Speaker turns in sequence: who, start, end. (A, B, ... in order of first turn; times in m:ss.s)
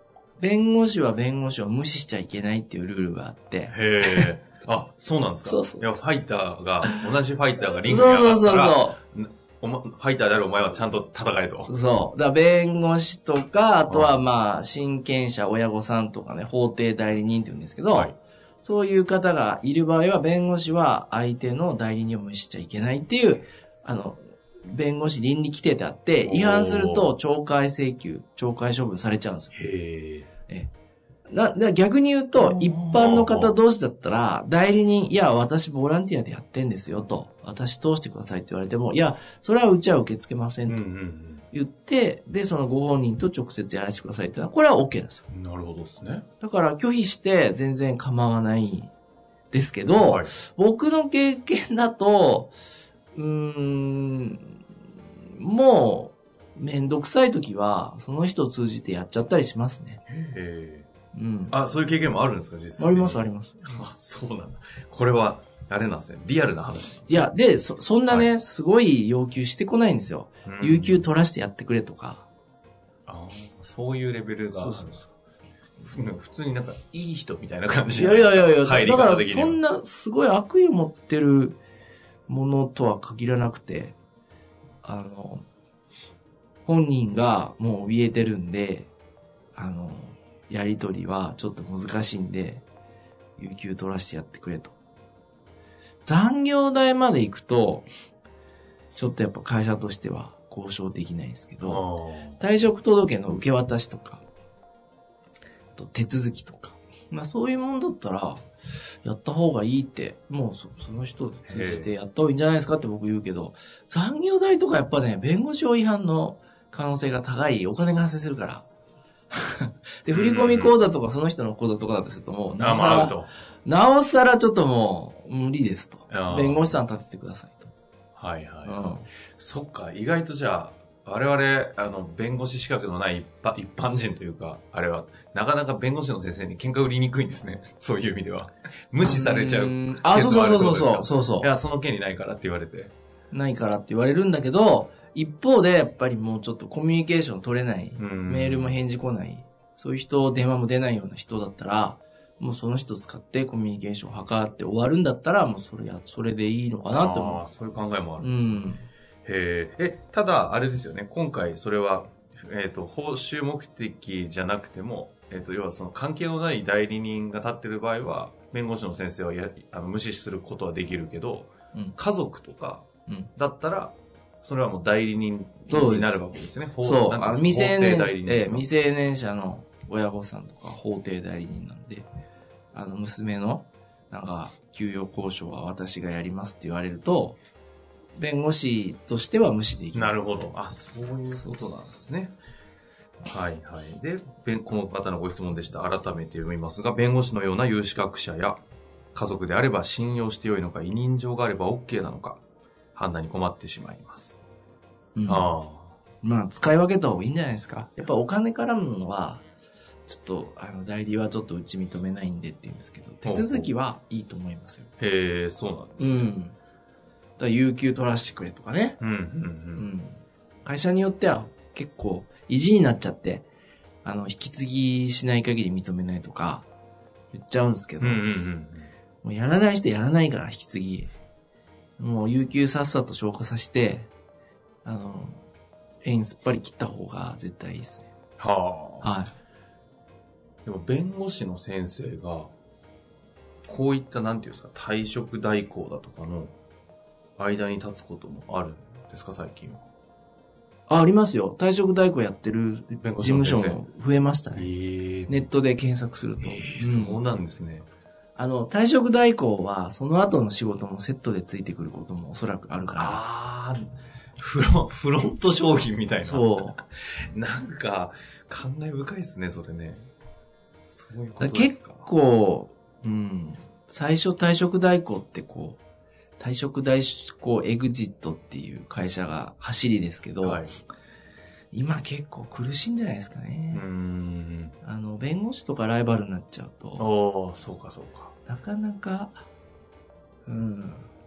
0:00.4-0:04.3 A
0:03.7-0:11.7 B
0:05.4-0:05.8 A
0:07.8-0:09.0 A
0:11.7-0:29.5 A
0:26.2-0:27.1 B
0:29.5-0:30.3 B
0:31.3-0:40.8 A
0:32.3-0:33.5 B
0:40.6-0:41.4 B
0:41.5-0:45.2 A
0:45.3-0:46.2 B
0:46.4-0:48.9 A
0:49.5-0:52.5 A
0:49.9-0:50.3 B
0:53.1-0:54.6 A
0:55.2-1:00.0 A
1:00.1-1:00.9 B
1:01.1-1:01.6 A
1:01.5-1:07.3 B
1:02.8-1:03.8 A
1:07.1-1:12.3 A
1:10.4-1:11.0 B
1:13.1-1:14.9 B
1:14.5-1:15.1 A
1:15.8-1:19.6 B
1:17.9-1:21.6 A
1:22.3-1:24.0 A
1:24.8-1:25.4 A
1:26.6-1:28.9 A
1:29.5-1:32.6 A
1:33.4-1:34.8 A
1:36.0-1:37.9 A
1:39.0-1:41.8 A
1:41.6-1:42.4 B
1:42.4-1:44.2 A
1:45.7-1:48.4 A
1:49.0-1:58.6 A
1:51.4-1:51.9 B
1:59.3-2:07.7 A
2:00.1-2:00.7 B
2:02.6-2:03.3 B
2:06.1-2:06.7 B
2:08.2-2:08.8 B
2:08.6-2:09.1 A
2:09.4-2:22.9 B
2:19.0-2:21.5 A
2:23.3-2:37.4 A
2:28.0-2:28.8 B
2:36.9-2:38.6 B
2:38.2-2:38.8 A
2:39.2-2:58.7 B
2:55.7-2:56.2 A
2:56.8-3:02.1 A
3:02.7-3:07.4 A
3:08.2-3:10.2 A
3:09.9-3:12.4 B
3:11.3-3:11.7 A
3:13.2-3:18.6 B
3:19.1-3:22.4 B
3:22.9-3:24.4 B
3:25.2-3:25.5 A
3:25.2-3:25.9 B
3:26.2-3:29.4 A
3:30.1-3:34.9 A
3:33.2-3:33.7 B
3:35.0-3:36.3 B
3:36.0-3:36.6 A
3:37.4-3:39.0 A
3:39.0-3:39.9 B
3:39.8-3:43.4 A
3:44.0-3:46.7 A
3:47.3-3:48.3 A
3:48.0-3:48.9 B
3:49.2-3:51.1 A
3:52.0-3:54.1 A
3:54.8-3:55.4 A
3:56.0-3:58.1 A
3:58.4-3:59.1 B
3:59.0-3:59.3 A
4:00.6-4:02.5 B
4:03.6-4:06.5 B
4:07.4-4:09.8 B
4:10.9-4:14.7 A
4:12.9-4:13.8 B
4:14.5-4:15.4 B
4:15.3-4:17.2 A
4:16.4-4:17.9 B
4:18.4-4:23.2 A
4:22.9-4:30.1 B
4:26.2-4:26.8 A
4:30.9-4:32.1 B
4:31.4-4:35.8 A
4:36.4-4:40.7 A
4:40.4-4:40.7 B
4:41.7-4:43.8 A
4:43.7-4:44.7 B
4:44.8-4:47.0 A
4:47.0-4:48.3 B
4:48.4-4:49.4 A
4:50.4-4:51.0 A